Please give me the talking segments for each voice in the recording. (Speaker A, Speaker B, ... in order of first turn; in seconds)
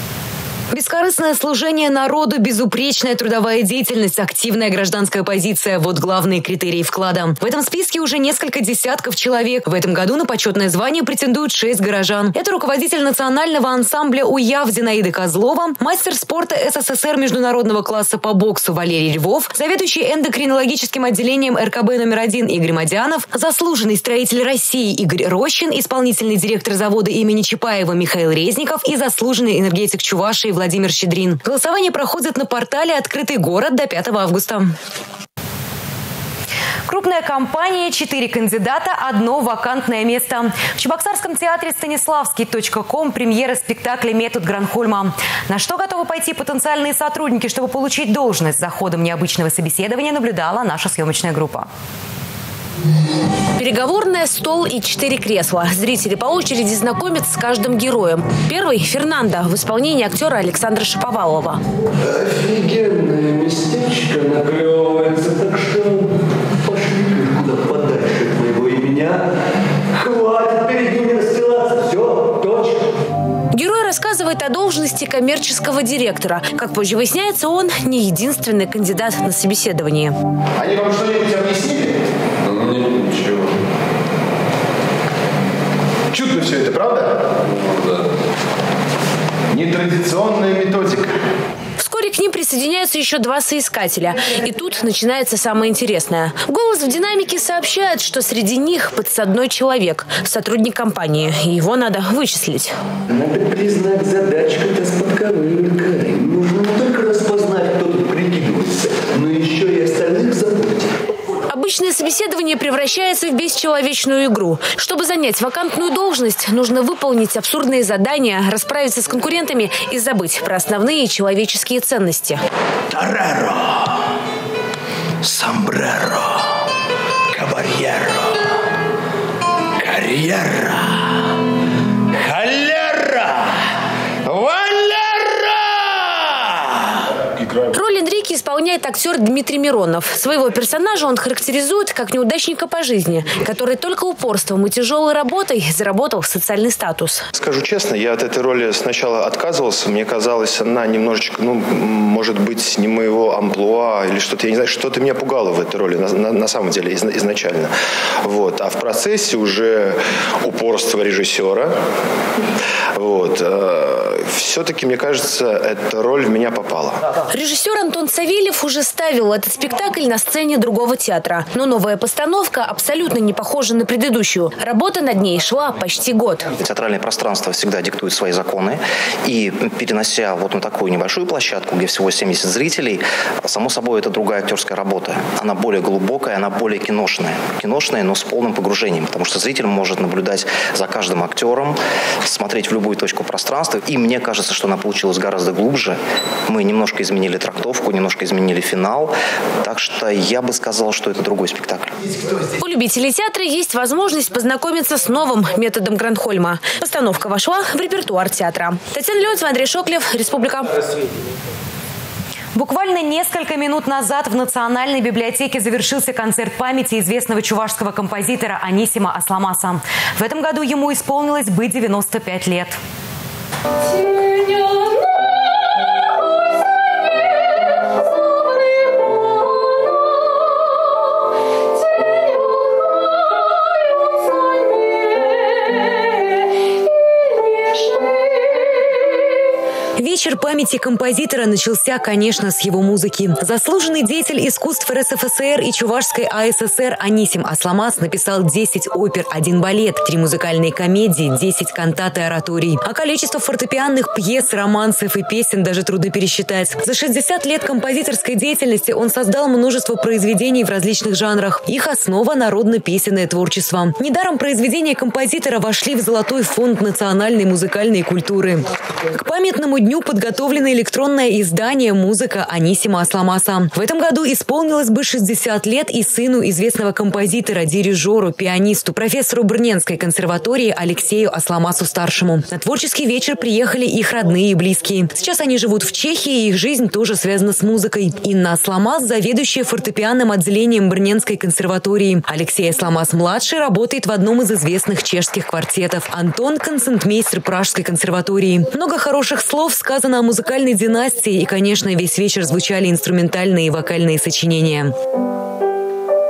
Speaker A: 0.7-34.7, 36.9-51.7, 212.6-222.8, 240.0-304.9
Speaker B: 53.6-61.6, 73.5-80.1, 91.8-102.7, 111.5-122.4, 137.7-147.3, 167.3-176.5, 202.6-210.7
Speaker C: 62.0-69.3, 69.9-72.8, 103.1-111.0, 122.9-123.6, 125.2-126.2, 127.3-128.2, 129.8-130.8, 132.3-133.2, 134.3-135.0
Speaker D: 90.3-90.9, 147.3-157.7, 158.2-161.8, 162.9-167.0
Speaker E: 176.6-202.0